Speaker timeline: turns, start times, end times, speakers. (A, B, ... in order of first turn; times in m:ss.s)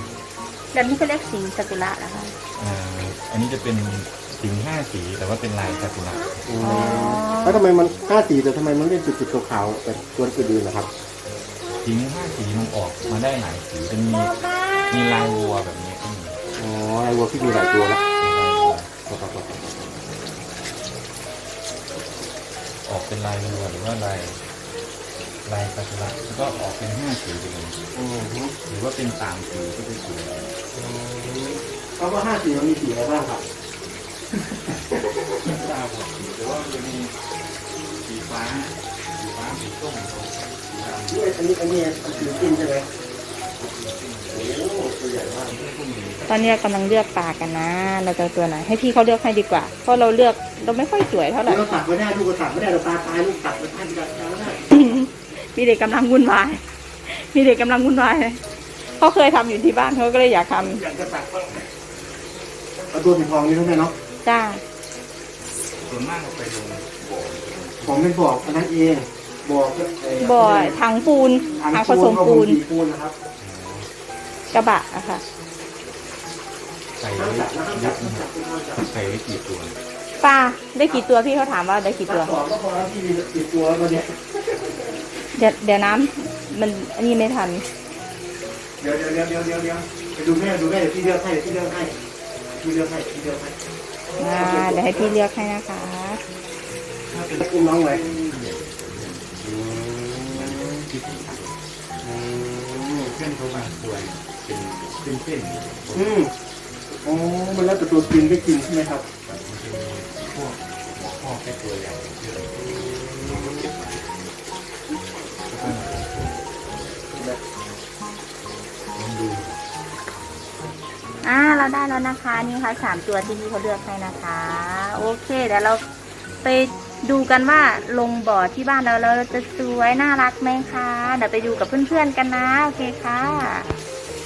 0:00.7-0:02.4 A
0:02.6-0:06.4 B
0:06.4-0:10.9 C
0:06.6-0:07.6 A
0:11.8-0:16.4 B
0:16.6-0:18.0 C
0:18.1-0:18.9 B
0:19.1-0:19.9 C
0:22.8-0:24.4 B
0:25.4-0:27.8 B
0:27.9-0:28.6 C
0:28.7-0:30.5 B
0:30.7-0:33.5 C
0:34.5-0:35.6 C
0:35.4-0:37.1 B
0:38.0-0:42.7 B
0:41.1-0:42.9 C
0:43.5-0:46.6 B
0:44.3-0:45.6 C
0:46.3-0:51.8 A
0:51.4-0:55.0 C
0:54.6-1:00.8 A
1:00.6-1:01.6 C
1:02.9-1:04.0 C
1:04.2-1:04.6 A
1:05.8-1:08.1 B
1:07.8-1:10.8 C
1:10.2-1:12.6 A
1:11.6-1:13.2 C
1:13.4-1:13.9 B
1:14.5-1:15.2 A
1:17.0-1:18.2 B
1:17.2-1:18.9 C
1:18.8-1:19.7 B
1:20.2-1:22.3 A
1:22.0-1:25.0 C
1:25.3-1:27.7 A
1:28.8-1:32.0 C
1:32.6-1:35.2 C
1:34.2-1:36.2 A
1:37.1-1:39.4 B
1:37.4-1:38.2 C
1:39.4-1:40.9 C
1:40.3-1:41.6 B
1:42.0-1:43.2 C
1:43.0-1:46.2 B
1:45.9-1:46.3 C
1:47.0-1:49.1 C
1:49.3-1:54.3 B
1:52.6-1:53.7 C
1:55.4-1:56.5 B
1:57.1-1:57.4 C
1:59.0-1:59.5 B
2:01.2-2:05.8 A
2:06.4-2:13.7 A